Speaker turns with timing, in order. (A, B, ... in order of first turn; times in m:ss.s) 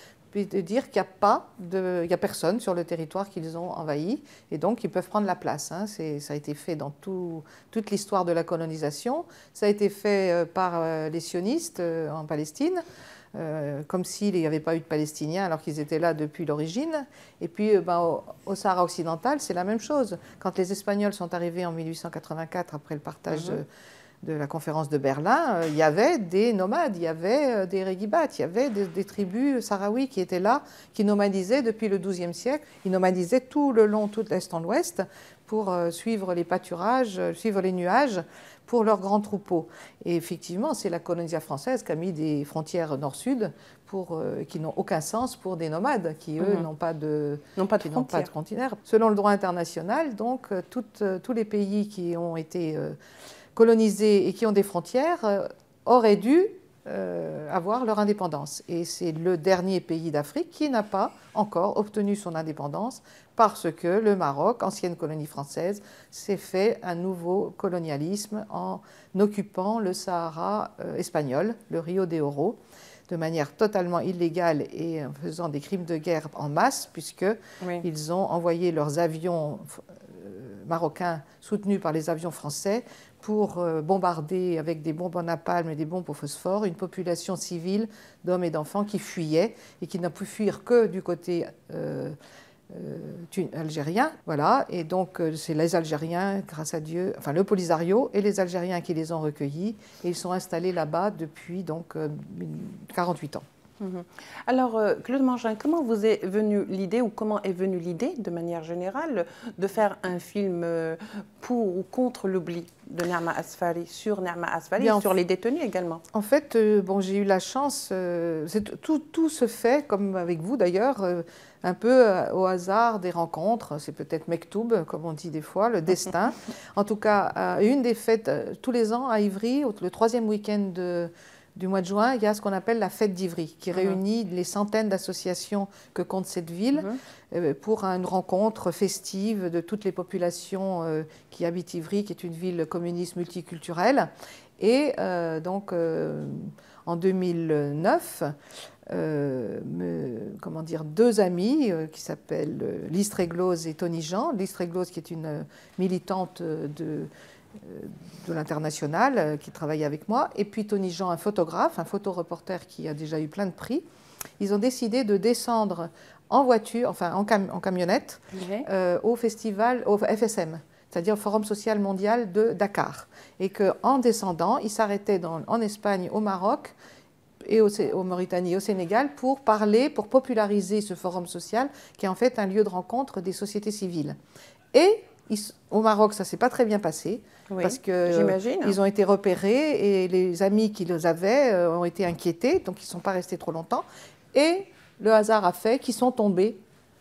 0:00.3-0:12.8 A
0:13.3-0:23.6 A
0:24.2-0:53.0 A
0:46.4-0:46.6 B
0:47.6-0:48.3 B
0:53.5-1:12.6 A
1:13.1-1:32.1 A
1:32.7-1:43.4 A
1:43.8-1:56.0 B
1:54.8-1:55.1 A
1:56.1-2:28.3 A
2:16.7-2:17.0 B
2:28.9-2:43.8 A
2:44.4-2:56.7 A
2:48.3-2:48.6 B
2:57.4-3:04.2 A
3:04.7-3:16.6 A
3:07.5-3:08.8 B